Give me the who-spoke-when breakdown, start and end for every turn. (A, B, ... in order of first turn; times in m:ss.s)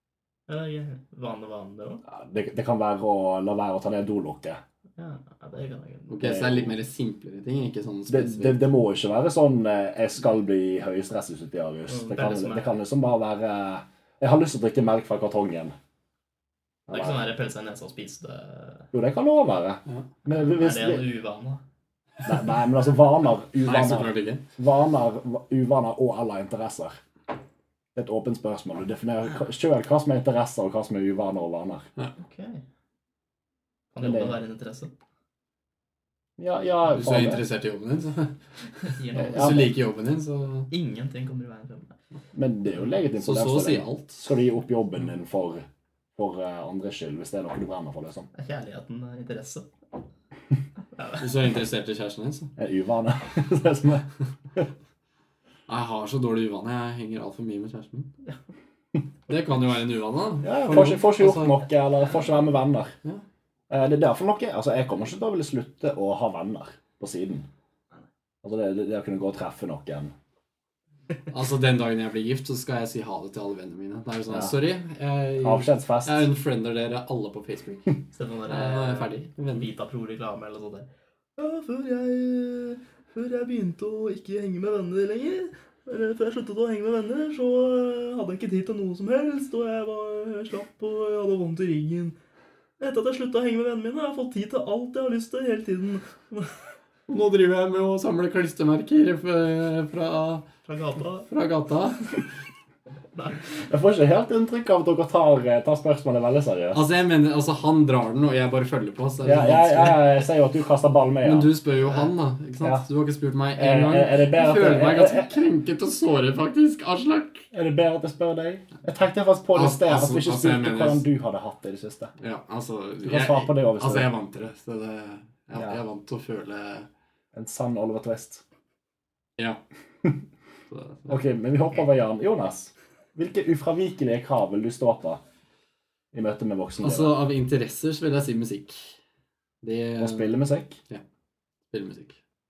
0:00.5-0:02.0 A
0:02.0-0:04.6 B
0:05.0-0:06.4 A
0:06.1-0:08.7 C
0:06.2-0:06.7 B
0:08.1-0:15.8 B
0:11.9-0:12.8 A
0:16.9-0:17.3 B
0:16.9-0:18.9 A
0:18.9-0:21.1 B
0:20.3-0:21.6 A
0:22.2-0:27.0 B
0:23.6-0:24.4 C
0:28.0-0:31.9 B
0:32.2-0:32.6 A
0:33.9-0:34.9 A
0:34.0-0:34.4 B
0:36.4-0:37.4 B
0:36.9-0:38.4 C
0:38.9-0:39.7 A
0:39.2-0:39.7 B
0:39.2-0:40.7 C
0:40.7-0:41.9 A
0:42.3-0:45.6 B
0:43.2-0:44.3 C
0:46.2-0:48.3 B
0:48.3-0:49.7 A
0:51.2-0:52.5 C
0:52.6-0:54.7 B
0:55.7-0:58.1 C
0:59.3-1:01.6 C
1:00.4-1:03.0 B
1:03.7-1:07.5 B
1:08.4-1:10.1 B
1:11.3-1:19.7 C
1:14.3-1:14.6 B
1:15.4-1:16.3 B
1:18.1-1:32.2 A
1:32.8-1:36.6 A
1:37.1-1:40.5 C
1:40.7-1:41.3 A
1:41.3-1:42.1 C
1:43.6-1:46.8 B
1:46.7-1:50.1 C
1:49.2-1:51.5 B
1:51.2-1:57.5 C
1:53.6-1:55.3 B
1:57.5-2:02.1 B
1:59.5-2:01.0 C
2:02.2-2:06.9 C
2:03.0-2:04.1 B
2:05.5-2:05.8 B
2:07.3-2:08.4 B
2:10.7-2:11.1 C
2:11.1-2:15.2 B
2:16.1-2:17.2 B
2:16.8-2:19.0 C
2:19.6-2:21.0 C
2:20.0-2:20.8 B
2:21.7-2:22.2 C